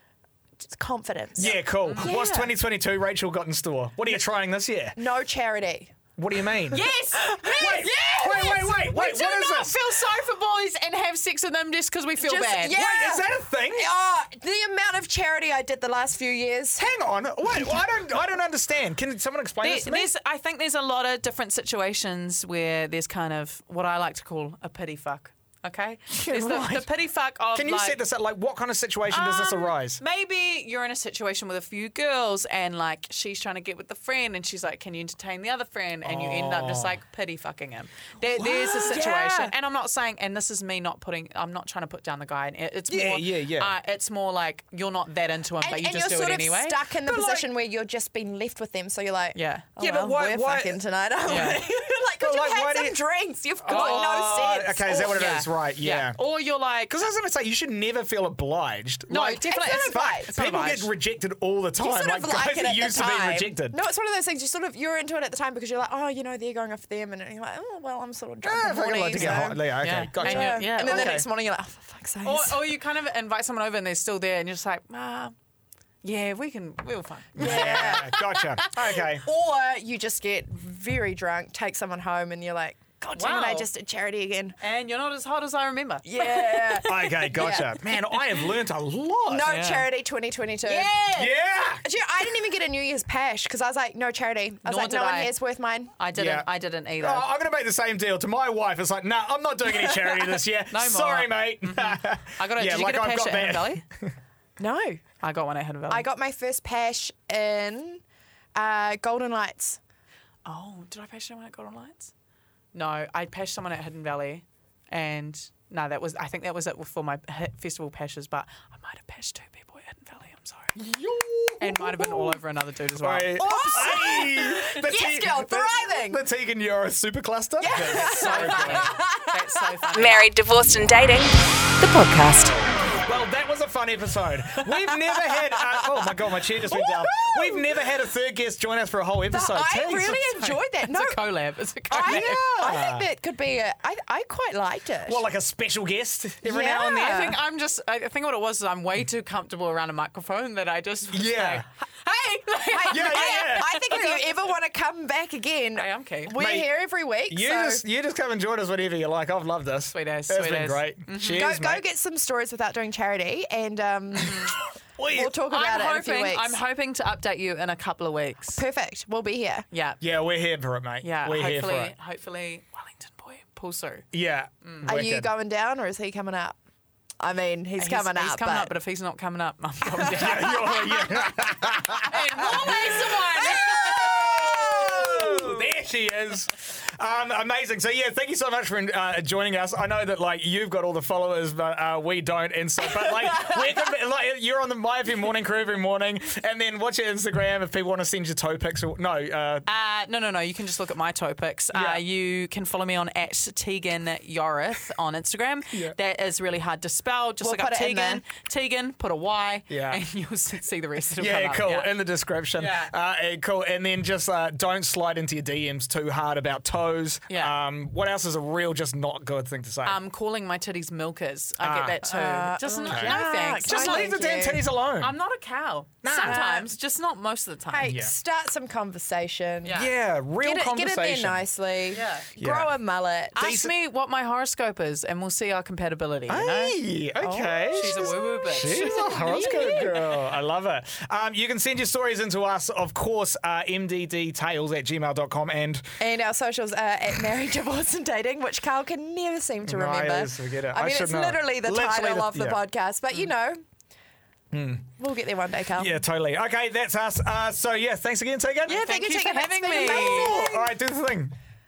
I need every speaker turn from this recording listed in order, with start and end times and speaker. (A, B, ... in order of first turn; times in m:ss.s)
0:00.6-0:02.5 A
0:01.4-0:05.0 B
0:01.4-0:02.1 C
0:05.0-0:06.0 A
0:06.2-0:09.8 B
0:06.7-0:12.7 C
0:06.7-0:09.0 A
0:12.2-0:16.9 A
0:12.7-0:13.9 B
0:16.8-0:20.1 B
0:19.6-0:28.0 C
0:26.1-0:26.9 B
0:27.5-0:30.0 B
0:29.1-0:46.8 C
0:36.0-0:37.0 B
0:38.3-0:39.5 A
0:42.9-0:43.7 B
0:45.6-0:55.2 A
0:47.0-0:47.4 B
0:49.3-0:50.2 C
0:50.1-0:53.0 B
0:51.3-0:51.6 C
0:53.6-0:57.0 C
0:53.6-0:56.2 B
0:56.9-1:03.8 B
0:59.1-1:00.9 C
0:59.4-1:00.3 A
1:01.8-1:12.7 A
1:08.4-1:11.2 B
1:09.8-1:11.2 C
1:12.2-1:15.3 C
1:16.0-1:18.6 C
1:17.4-1:19.2 B
1:17.4-1:18.2 A
1:19.2-1:24.6 A
1:23.1-1:23.7 C
1:24.6-1:27.3 C
1:26.0-1:27.8 A
1:26.8-1:29.5 B
1:29.3-1:30.9 A
1:29.5-1:29.9 C
1:30.6-1:31.4 C
1:31.1-1:31.9 B
1:31.8-1:35.9 A
1:34.6-1:35.3 C
1:36.0-1:37.3 C
1:36.1-1:36.5 B
1:37.0-1:44.1 B
1:40.7-1:43.8 C
1:44.6-1:45.0 A
1:45.2-1:46.0 C
1:45.9-1:48.0 A
1:48.6-1:49.8 A
1:50.4-1:52.1 C
1:52.7-2:00.8 C
2:00.7-2:02.4 B
2:01.6-2:04.0 C
2:03.0-2:09.0 B
2:03.4-2:06.2 A
2:07.6-2:09.4 A
2:07.7-2:10.3 C
2:09.9-2:12.6 D
2:13.0-2:20.2 B
2:16.6-2:17.9 A
2:19.3-2:21.2 A
2:19.8-2:22.4 C
2:21.9-2:25.2 A
2:22.0-2:23.0 B
2:25.0-2:27.2 B
2:26.4-2:27.4 A
2:26.6-2:34.4 C
2:31.1-2:31.6 B
2:32.7-2:37.8 A
2:32.9-2:33.8 B
2:35.8-2:36.3 C
2:36.3-2:36.7 B
2:37.3-2:41.8 B
2:39.9-2:41.5 C
2:41.3-2:46.6 A
2:44.2-2:44.5 C
2:45.0-2:45.3 B
2:45.5-2:48.6 C
2:48.6-2:49.6 A
2:49.7-2:50.0 C
2:50.0-2:51.9 B
2:51.0-2:54.0 C
2:54.1-2:55.3 B
2:54.6-2:54.9 C
2:54.8-2:56.6 A
2:57.2-2:58.7 A
2:57.8-3:01.3 C
3:00.0-3:00.4 A
3:00.0-3:19.7 B
3:02.0-3:04.2 C
3:03.7-3:05.6 A
3:19.6-3:31.9 C
3:21.7-3:22.0 B
3:27.4-3:28.2 A
3:29.7-3:30.0 B
3:31.2-3:40.0 B
3:32.6-3:32.9 C
3:37.3-3:37.5 C
3:39.8-3:44.2 C
3:41.6-3:42.0 B
3:42.1-3:44.6 A
3:42.9-3:45.1 B
3:45.0-3:47.9 C
3:46.0-3:46.4 B
3:46.1-3:46.7 A
3:47.7-3:49.8 A
3:47.8-3:48.1 B
3:49.6-3:49.9 C
3:49.7-3:51.4 B
3:50.4-3:53.5 A
3:51.9-3:52.3 C
3:52.4-3:52.7 B
3:53.3-3:56.8 C
3:53.4-3:53.7 B
3:56.3-4:05.9 B
3:57.2-4:00.2 A
3:57.7-3:59.8 C
4:06.0-4:13.6 A
4:09.6-4:12.6 B
4:14.5-4:14.9 B
4:15.0-4:15.9 A
4:15.8-4:18.8 B
4:18.6-4:20.4 C
4:18.7-4:20.7 A
4:19.8-4:21.3 B